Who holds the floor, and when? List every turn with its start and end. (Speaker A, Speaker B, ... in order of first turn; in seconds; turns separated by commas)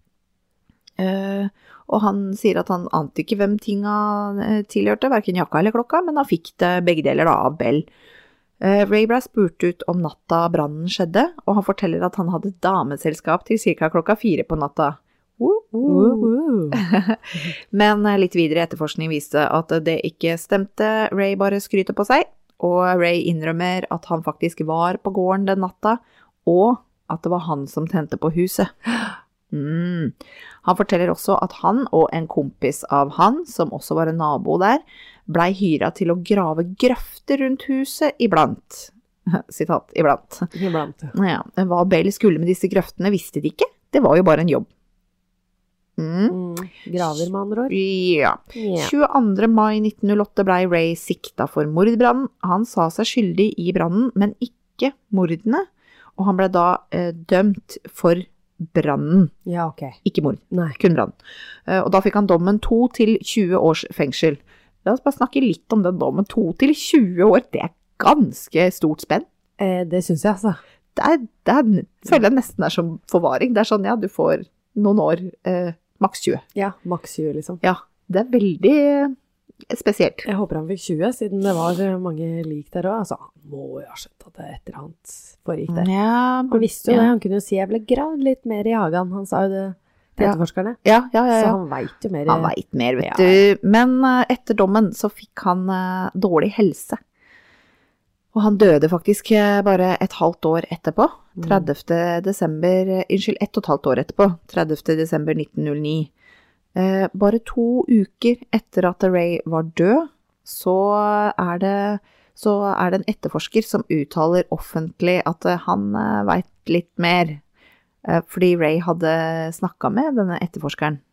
Speaker A: 1.0-7.9, Speaker A: 8.6-28.9, Speaker B: 15.9-16.8, Speaker A: 29.5-40.5, Speaker B: 40.5-41.1, Speaker A: 41.1-44.7, Speaker A: 46.0-46.4, Speaker B: 46.3-47.8, Speaker A: 47.0-59.3, Speaker B: 48.5-48.9, Speaker B: 59.5-60.0, Speaker A: 60.0-61.1, Speaker B: 60.5-60.8, Speaker A: 61.7-69.3, Speaker B: 69.6-70.6, Speaker A: 71.0-76.4, Speaker B: 76.5-77.6, Speaker A: 77.6-79.2, Speaker A: 79.7-80.3, Speaker B: 80.2-85.9, Speaker A: 85.7-87.1, Speaker B: 86.5-90.8, Speaker A: 90.2-91.6, Speaker B: 91.3-93.4, Speaker A: 92.3-97.0, Speaker A: 98.3-106.1, Speaker B: 101.4-101.7, Speaker A: 106.8-117.4, Speaker A: 118.0-121.0